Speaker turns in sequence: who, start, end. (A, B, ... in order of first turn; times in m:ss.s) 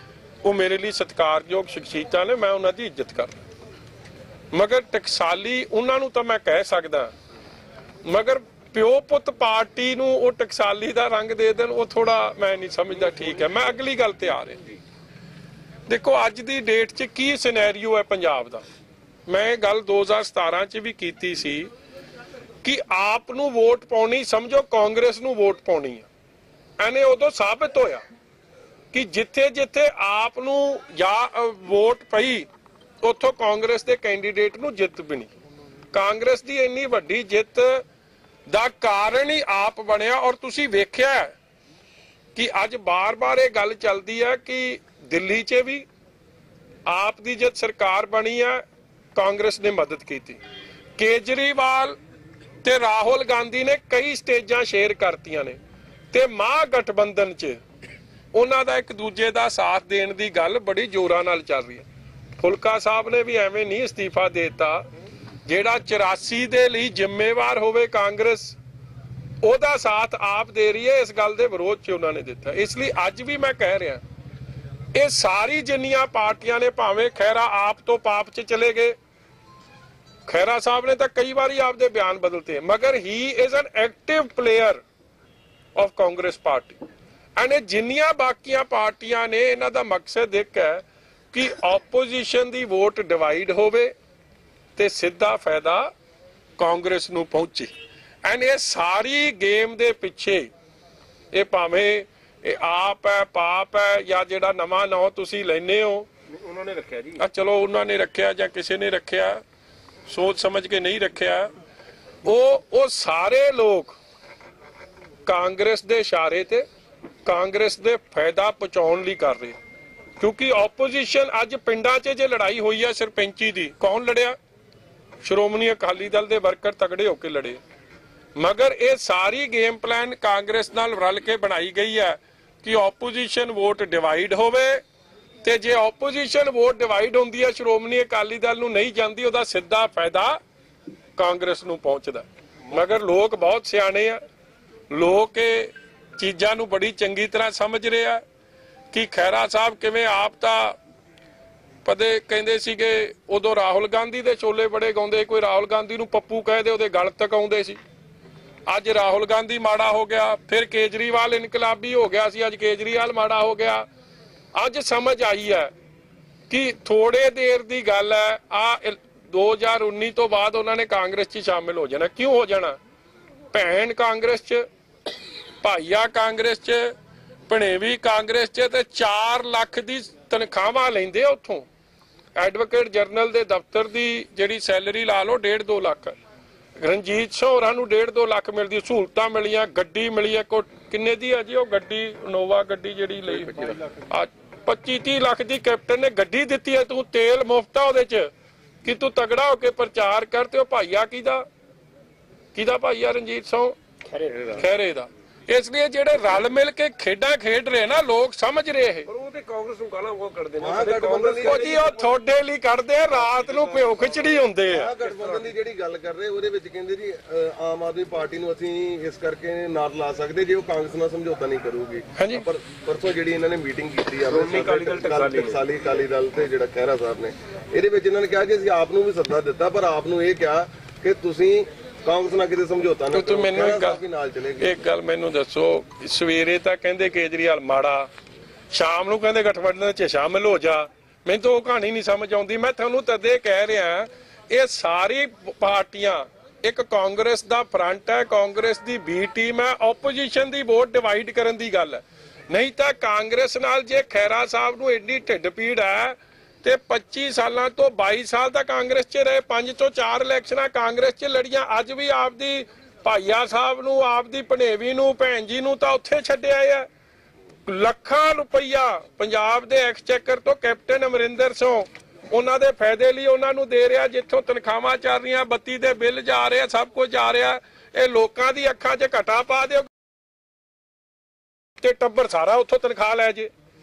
0:00.4-0:03.3 A
0:04.5-0:07.1 A
0:08.0-0:14.6 A
0:15.9-0:18.6 A
0:19.3-0:21.7 A
0:22.6-0:26.1 A
0:26.8-0:28.0 A
0:28.9-0:32.5 A
0:33.0-0:35.3 A
0:35.9-0:37.8 A
0:38.5-0:41.3 A
0:42.3-0:45.8 A
0:46.9-0:48.6 A
0:49.1-0:50.4 A
0:51.0-0:52.0 A
0:52.6-0:55.6 A
0:56.1-0:57.6 A
0:58.3-1:01.8 A
1:02.4-1:04.8 A
1:05.4-1:08.6 A
1:09.4-1:14.0 A
1:14.9-1:18.9 A
1:20.3-1:24.8 A
1:25.8-1:26.8 A
1:27.4-1:33.9 A
1:34.8-1:35.9 A
1:36.6-1:37.7 A
1:38.2-1:40.5 A
1:41.3-1:46.1 A
1:46.4-1:47.2 B
1:47.2-1:49.4 A
1:50.1-1:51.5 A
1:52.2-1:53.9 A
1:55.2-1:56.6 A
1:57.2-1:59.6 A
2:00.2-2:04.4 A
2:05.2-2:07.6 A
2:08.4-2:14.8 A
2:15.4-2:20.4 A
2:21.2-2:24.2 A
2:24.9-2:28.2 A
2:28.9-2:30.8 A
2:31.8-2:37.8 A
2:38.7-2:43.9 A
2:44.5-2:45.7 A
2:46.5-2:52.8 A
2:53.5-2:54.6 A
2:55.6-2:56.9 A
2:57.5-3:01.7 A
3:02.4-3:06.2 A
3:06.8-3:18.3 A
3:18.8-3:21.4 A
3:22.5-3:23.7 A
3:24.1-3:24.6 B
3:24.6-3:29.1 A
3:29.1-3:32.1 B
3:30.6-3:31.7 C
3:31.4-3:34.9 A
3:33.3-3:34.3 B
3:34.7-3:54.7 C
3:35.0-3:35.4 B
3:42.2-3:42.5 A
3:44.2-3:45.6 B
3:53.1-3:54.0 A
3:54.6-3:58.1 A
3:58.7-4:26.9 A
4:27.6-4:39.9 A
4:41.8-4:43.5 A